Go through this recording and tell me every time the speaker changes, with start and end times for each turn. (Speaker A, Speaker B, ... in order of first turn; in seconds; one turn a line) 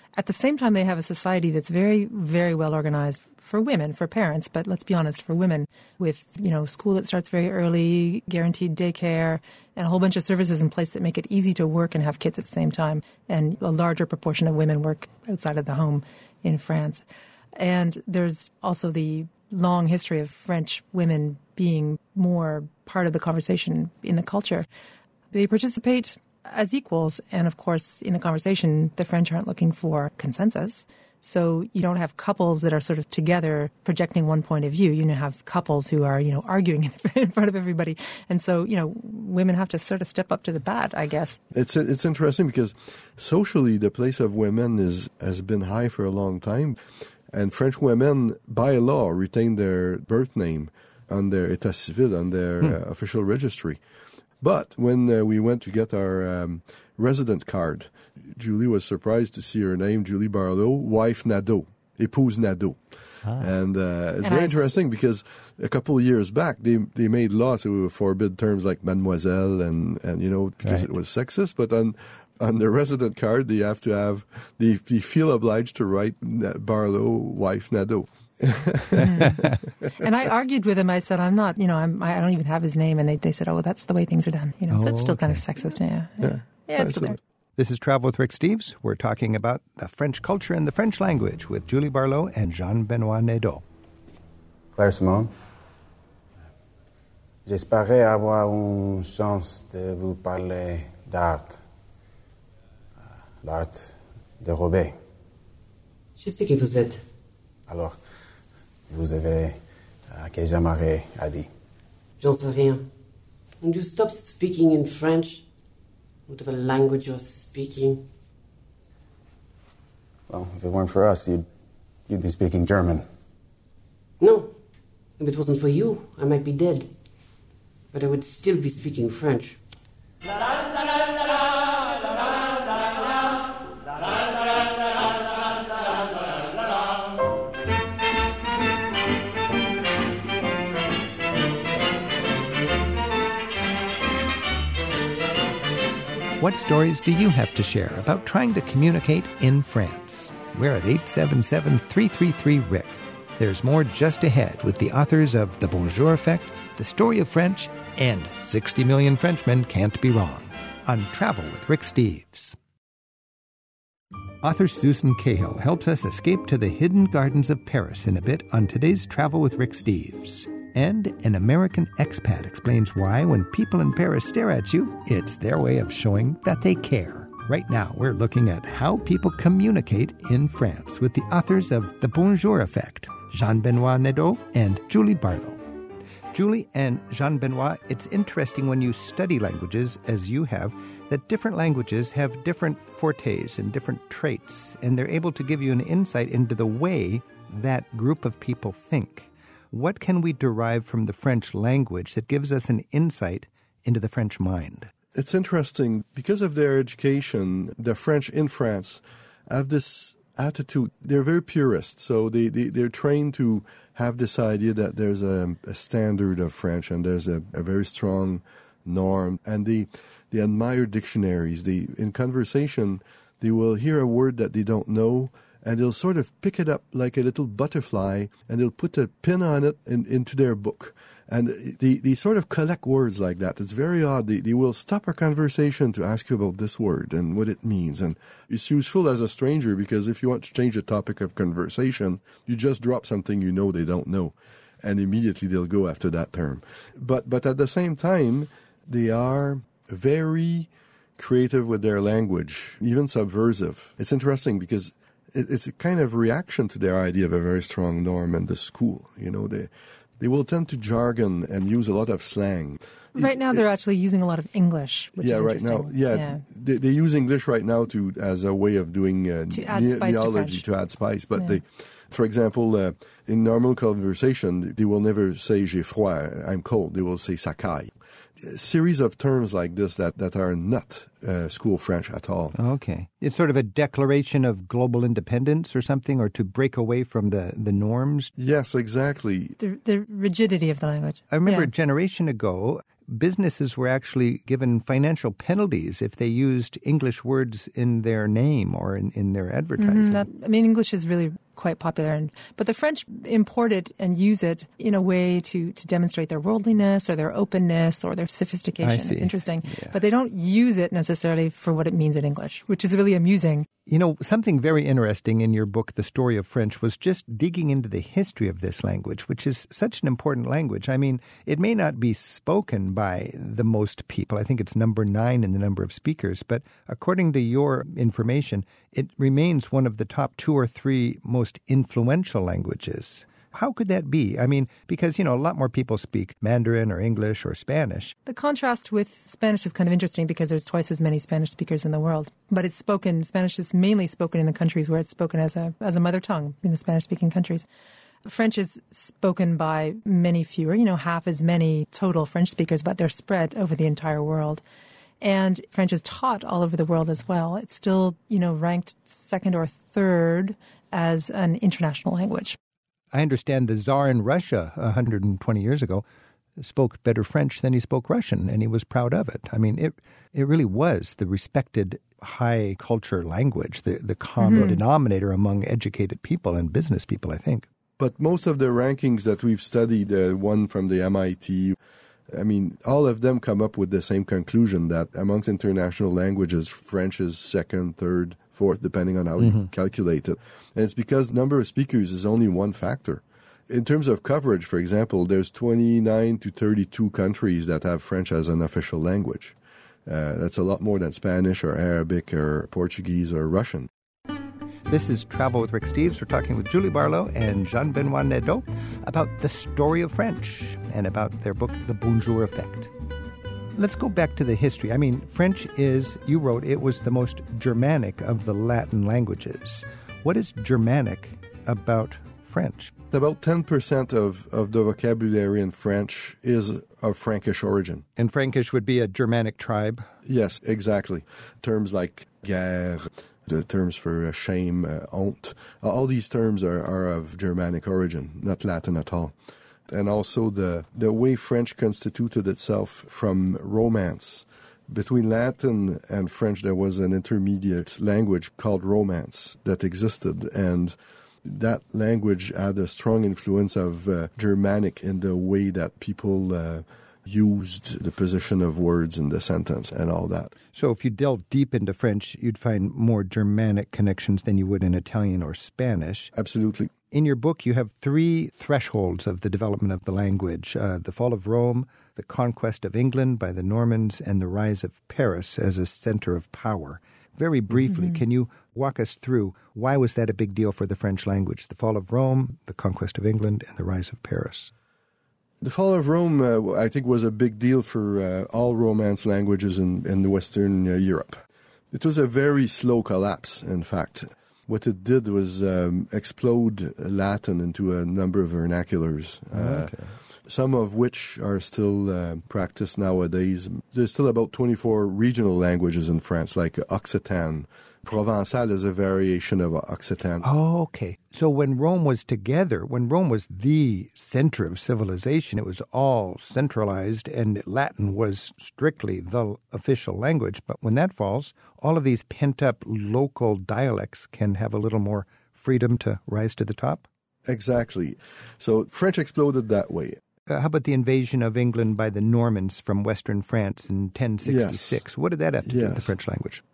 Speaker A: 0.2-17.0
Speaker A: 17.6-24.7
Speaker A: 25.3-41.4
Speaker B: 41.5-53.8
Speaker B: 54.4-79.5
Speaker C: 63.2-63.5
Speaker A: 64.2-64.7
Speaker C: 70.6-70.9
Speaker A: 79.0-79.4
Speaker A: 80.0-87.2
Speaker C: 84.7-85.4
Speaker B: 86.2-87.2
Speaker C: 87.6-93.6
Speaker D: 94.7-95.3
Speaker D: 97.5-101.6
Speaker D: 103.0-105.0
Speaker E: 106.2-107.0
Speaker D: 107.7-108.1
Speaker D: 108.9-111.5
Speaker E: 112.2-112.9
Speaker E: 113.6-115.5
Speaker E: 116.3-118.1
Speaker D: 120.3-121.5
Speaker D: 122.1-123.1
Speaker E: 124.2-126.9
Speaker E: 127.9-129.6
Speaker C: 146.4-162.6
Speaker C: 164.4-185.6
Speaker C: 186.3-204.9
Speaker B: 205.1-263.6
Speaker A: 263.2-266.4
Speaker B: 265.2-282.6
Speaker A: 269.5-270.6
Speaker C: 282.6-288.3
Speaker B: 288.4-289.6
Speaker A: 289.6-291.7
Speaker C: 291.3-300.3
Speaker A: 299.8-313.7
Speaker C: 308.8-310.0
Speaker C: 313.9-338.1
Speaker A: 338.3-347.6
Speaker A: 348.2-354.6
Speaker A: 355.2-362.6
Speaker C: 363.1-366.1
Speaker C: 366.6-377.7
Speaker A: 374.4-374.8
Speaker B: 378.0-381.8
Speaker B: 382.3-403.9
Speaker C: 389.4-389.7
Speaker C: 404.9-412.9
Speaker C: 413.7-422.9
Speaker B: 423.1-428.1
Speaker C: 428.2-430.1
Speaker B: 430.2-439.4
Speaker B: 439.9-460.5
Speaker C: 460.7-466.3
Speaker B: 466.3-466.9
Speaker C: 467.1-484.7
Speaker A: 477.9-478.2
Speaker B: 485.6-510.5
Speaker C: 499.5-500.1
Speaker C: 510.4-527.1
Speaker B: 527.5-530.2
Speaker C: 530.5-536.6
Speaker B: 534.4-535.0
Speaker B: 535.6-536.1